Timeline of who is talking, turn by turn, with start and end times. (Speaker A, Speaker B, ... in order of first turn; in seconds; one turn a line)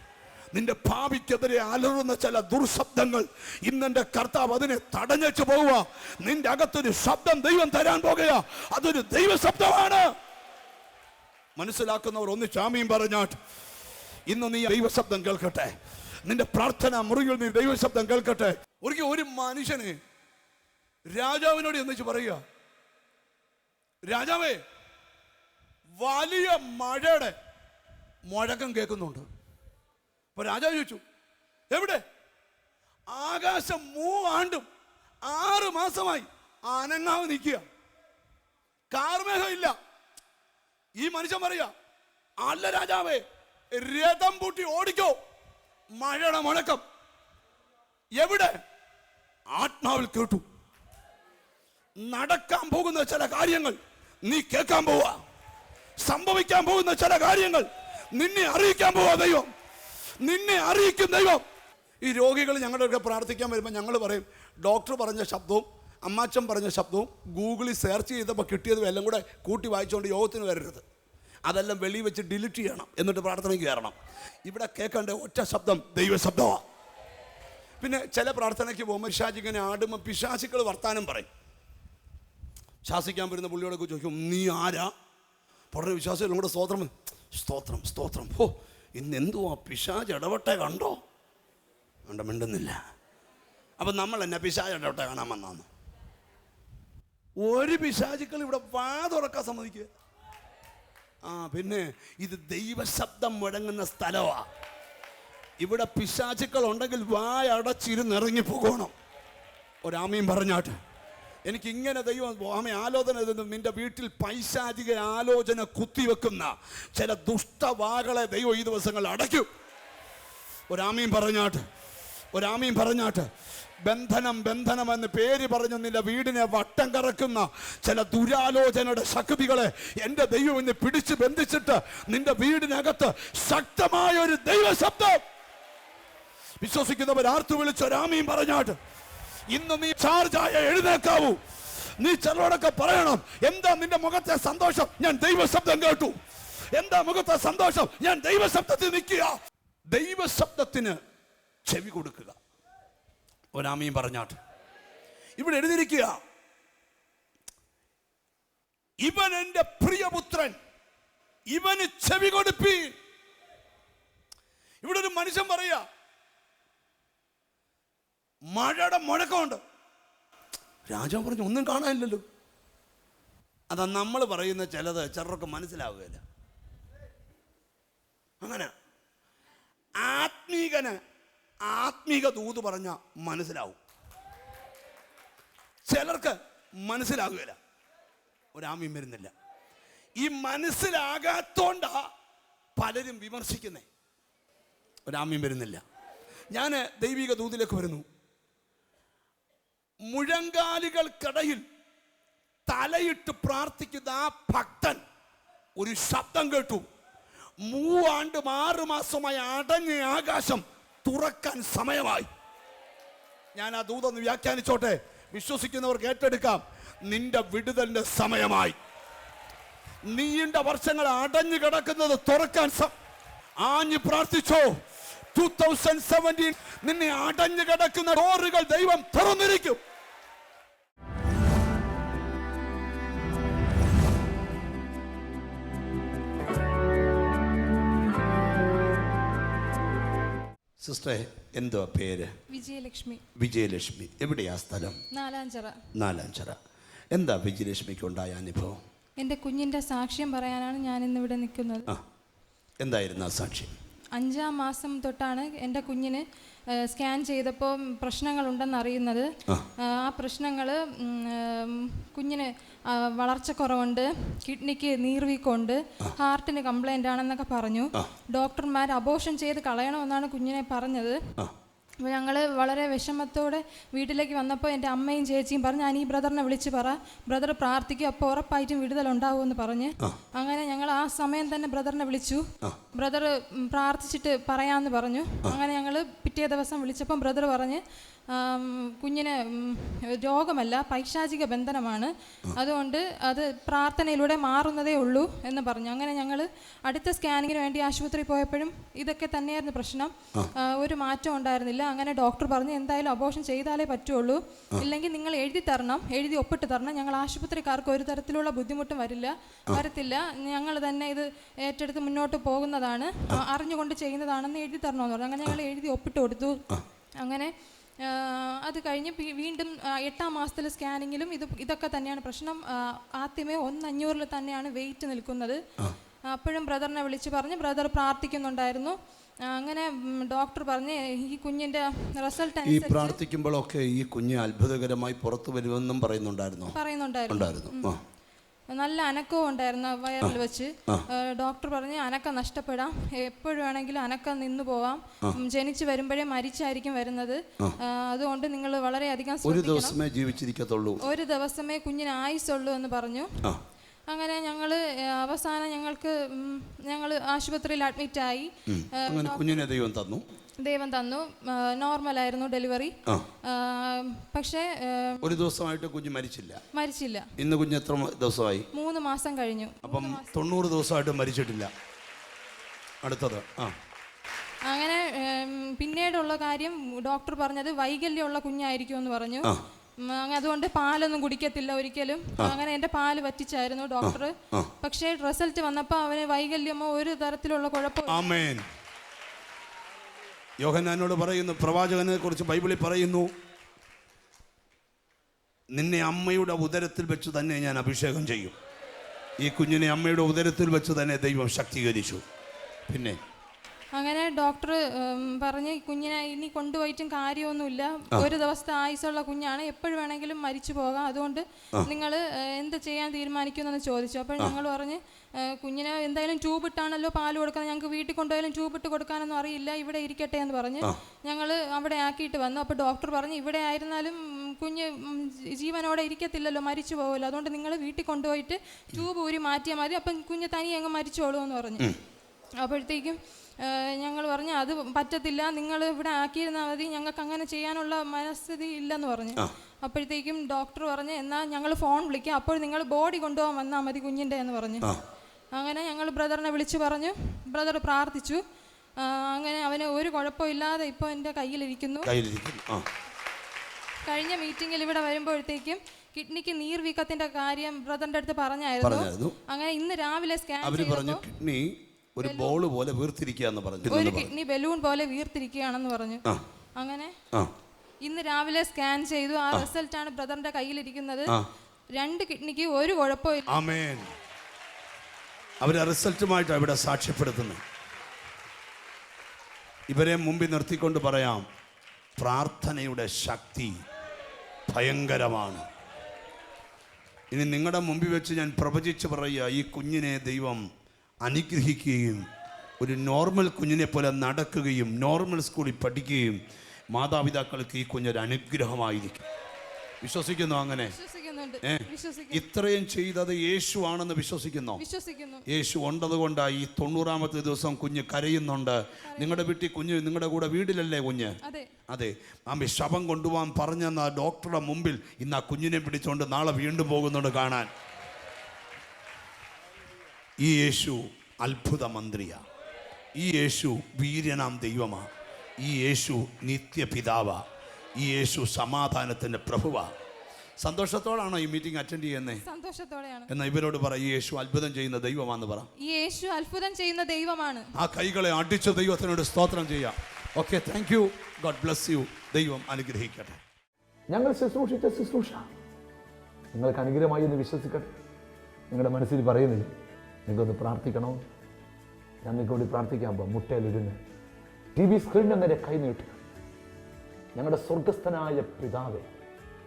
Speaker A: 0.5-10.1
Speaker A: 11.6-13.4
Speaker A: 14.3-15.7
Speaker A: 16.2-20.0
Speaker A: 21.1-22.4
Speaker A: 24.1-24.6
Speaker A: 26.0-27.4
Speaker A: 28.3-29.3
Speaker A: 30.4-31.0
Speaker A: 31.7-32.0
Speaker A: 33.1-34.7
Speaker A: 35.3-37.6
Speaker A: 38.9-39.8
Speaker A: 41.0-41.7
Speaker A: 42.4-43.2
Speaker A: 43.7-45.2
Speaker A: 46.0-46.8
Speaker A: 48.2-48.5
Speaker A: 49.5-50.4
Speaker A: 52.0-55.2
Speaker A: 56.0-59.5
Speaker A: 60.2-61.4
Speaker A: 62.0-70.8
Speaker A: 71.5-76.6
Speaker A: 77.8-81.3
Speaker A: 82.8-84.9
Speaker A: 85.7-91.0
Speaker A: 92.1-92.8
Speaker A: 93.8-95.7
Speaker A: 97.4-99.9
Speaker A: 101.2-104.5
Speaker A: 105.6-108.9
Speaker A: 109.8-110.8
Speaker A: 111.5-119.5
Speaker A: 120.7-121.6
Speaker A: 122.3-123.3
Speaker A: 123.8-135.2
Speaker A: 136.6-138.8
Speaker A: 139.5-141.4
Speaker A: 142.0-146.2
Speaker A: 146.7-149.3
Speaker A: 149.9-151.0
Speaker A: 151.7-152.4
Speaker A: 153.5-154.4
Speaker A: 155.4-156.2
Speaker A: 159.0-160.6
Speaker A: 161.5-163.0
Speaker A: 164.8-165.8
Speaker A: 168.5-169.6
Speaker A: 170.9-172.2
Speaker A: 173.7-176.2
Speaker A: 178.4-178.7
Speaker A: 180.0-181.0
Speaker A: 181.7-183.8
Speaker A: 185.9-187.6
Speaker A: 188.5-189.3
Speaker A: 190.2-192.1
Speaker A: 192.8-193.9
Speaker A: 195.1-195.8
Speaker A: 196.5-198.0
Speaker A: 200.1-201.6
Speaker A: 202.7-205.0
Speaker A: 205.8-206.9
Speaker A: 207.7-212.3
Speaker A: 213.6-218.8
Speaker A: 220.1-222.9
Speaker A: 223.6-224.7
Speaker A: 225.3-229.8
Speaker A: 240.8-242.3
Speaker B: 242.5-243.2
Speaker A: 243.4-245.0
Speaker B: 245.1-245.9
Speaker A: 246.0-246.6
Speaker A: 247.1-248.8
Speaker B: 249.2-251.9
Speaker A: 252.8-253.7
Speaker B: 254.1-271.2
Speaker B: 272.0-316.6
Speaker B: 317.2-325.6
Speaker B: 326.3-333.2
Speaker A: 332.6-336.8
Speaker B: 336.7-337.9
Speaker A: 337.3-338.0
Speaker B: 338.7-350.0
Speaker A: 349.4-351.1
Speaker B: 351.0-353.3
Speaker B: 354.1-359.6
Speaker A: 358.7-360.2
Speaker B: 360.6-365.4
Speaker A: 365.2-366.6
Speaker B: 366.7-367.3
Speaker A: 367.4-368.7
Speaker B: 368.7-370.3
Speaker A: 369.8-371.7
Speaker A: 373.0-373.8
Speaker B: 374.7-379.5
Speaker B: 380.0-388.2
Speaker A: 384.0-384.7
Speaker A: 388.1-388.6
Speaker A: 390.6-393.3
Speaker A: 395.7-398.6
Speaker A: 399.4-402.2
Speaker A: 402.9-403.2
Speaker B: 403.9-431.9
Speaker B: 432.6-444.9
Speaker B: 445.5-448.4
Speaker B: 449.0-452.1
Speaker A: 452.1-452.9
Speaker B: 454.1-461.2
Speaker A: 458.8-459.4
Speaker A: 460.6-464.3
Speaker B: 462.2-462.6
Speaker B: 463.9-466.2
Speaker B: 466.8-467.2
Speaker B: 468.0-471.3
Speaker B: 471.9-473.5
Speaker A: 473.5-474.1
Speaker A: 475.6-477.6
Speaker A: 479.9-481.4
Speaker A: 482.2-483.8
Speaker A: 484.7-485.6
Speaker A: 487.3-490.6
Speaker A: 491.2-492.3
Speaker A: 492.8-496.4
Speaker A: 496.9-499.2
Speaker A: 500.0-500.9
Speaker B: 500.9-502.4
Speaker A: 501.6-504.8
Speaker B: 504.8-505.4
Speaker A: 505.5-511.4
Speaker B: 509.1-509.5
Speaker B: 511.4-511.7
Speaker A: 511.9-517.7
Speaker A: 520.4-522.4
Speaker A: 523.2-525.1
Speaker A: 525.6-527.4
Speaker A: 528.0-529.9
Speaker A: 530.6-532.4
Speaker B: 532.4-533.3
Speaker A: 533.3-535.7
Speaker B: 535.8-537.7
Speaker A: 537.8-543.4
Speaker C: 544.1-545.5
Speaker C: 546.5-547.9
Speaker C: 548.7-549.7
Speaker C: 550.3-551.2
Speaker C: 552.2-554.0
Speaker C: 554.8-556.2
Speaker C: 557.4-559.1